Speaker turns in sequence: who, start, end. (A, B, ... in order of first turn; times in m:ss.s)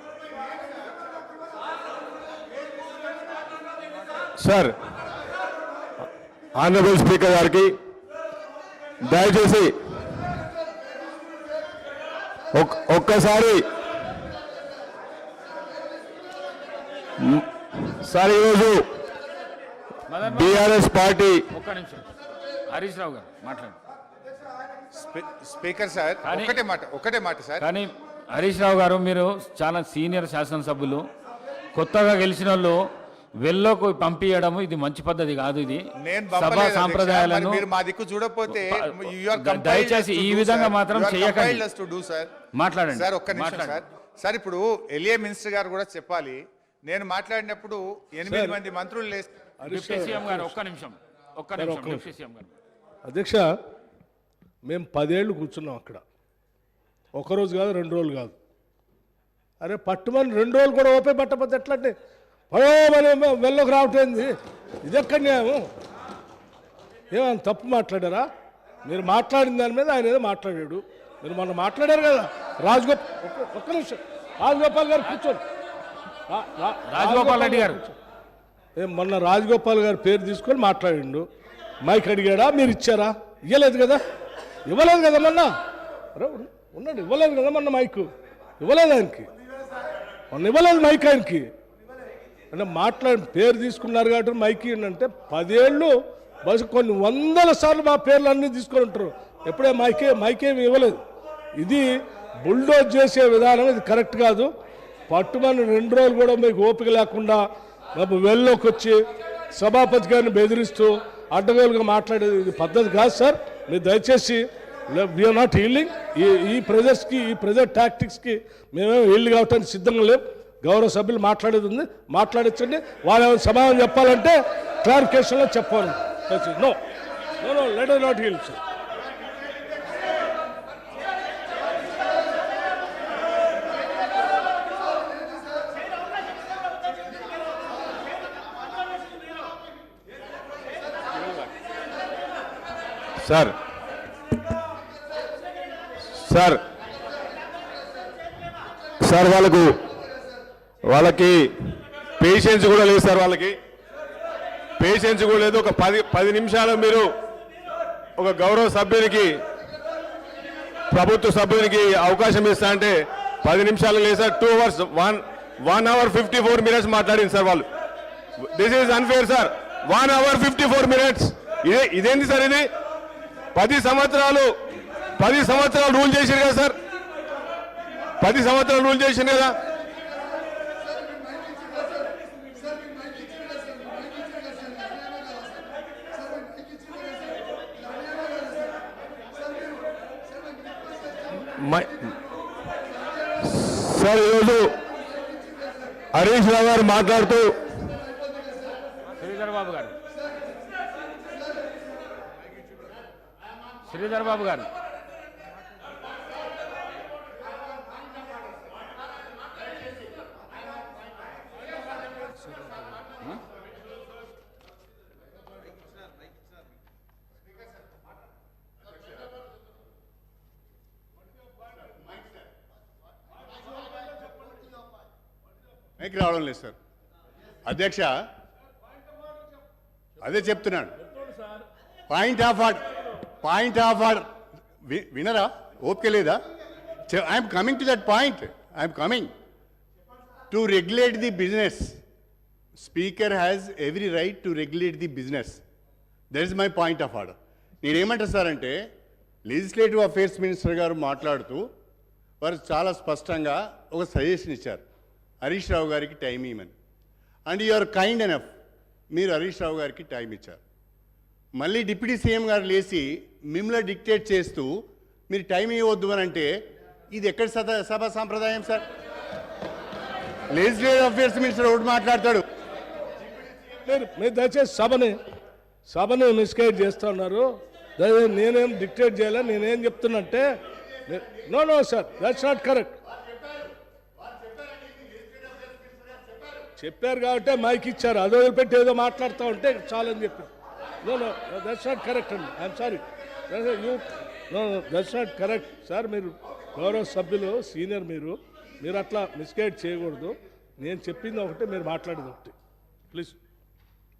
0:04.4-0:04.8 A
0:06.5-0:07.8 A
0:09.0-0:10.3 A
0:12.5-0:13.7 A
0:17.2-0:18.9 A
0:20.1-0:20.8 B
0:20.2-0:21.4 A
0:21.5-0:22.1 B
0:22.7-0:23.8 B
0:24.9-0:27.6 C
0:26.2-0:26.6 B
0:27.6-0:31.0 B
0:31.7-0:32.8 B
0:33.4-0:37.6 B
0:36.0-0:42.3 C
0:38.5-0:41.6 B
0:42.6-0:43.8 B
0:42.9-0:49.5 C
0:48.2-0:48.6 D
0:49.6-0:50.6 D
0:49.6-0:52.5 B
0:51.6-0:52.1 D
0:53.0-0:53.5 D
0:54.6-0:56.0 D
0:57.1-0:58.3 D
0:59.6-1:01.9 D
1:02.5-1:04.3 D
1:04.8-1:05.6 D
1:07.1-1:08.2 D
1:08.8-1:15.4 D
1:16.3-1:18.0 D
1:16.9-1:17.8 B
1:18.8-1:21.3 D
1:21.8-1:24.0 D
1:24.6-1:25.5 D
1:26.1-1:29.3 D
1:30.3-1:31.5 D
1:32.5-1:41.0 D
1:41.6-1:41.9 D
1:42.4-1:44.5 D
1:45.1-1:49.0 D
1:49.5-2:06.8 D
2:07.4-2:08.6 D
2:23.2-2:23.6 A
2:26.1-2:26.6 A
2:29.0-2:29.8 A
2:30.8-2:33.6 A
2:34.8-2:37.1 A
2:38.2-2:39.4 A
2:40.9-2:47.7 A
2:48.4-2:52.7 A
2:53.5-2:54.5 A
2:55.2-2:56.8 A
2:58.2-2:59.6 A
3:11.5-3:12.0 A
3:13.4-3:14.8 A
3:16.1-3:17.7 A
3:19.2-3:20.0 B
3:23.9-3:24.7 B
3:46.0-3:46.7 E
3:47.6-3:48.2 E
3:50.2-3:51.0 E
3:52.1-3:52.9 E
3:53.4-3:54.3 E
3:54.8-3:56.4 E
3:57.1-3:59.3 E
4:00.5-4:02.0 E
4:02.8-4:05.6 E
4:06.3-4:08.8 E
4:09.5-4:11.6 E
4:12.4-4:14.8 E
4:15.4-4:16.7 E
4:17.5-4:18.5 E
4:19.1-4:20.6 E
4:21.6-4:26.5 E
4:27.1-4:28.8 E
4:30.5-4:32.4 E
4:33.8-4:35.2 D
4:35.9-4:40.5 D
4:41.0-4:43.0 D
4:44.3-4:46.2 E
4:46.8-4:50.5 D
4:51.0-5:02.5 D
5:03.1-5:03.4 D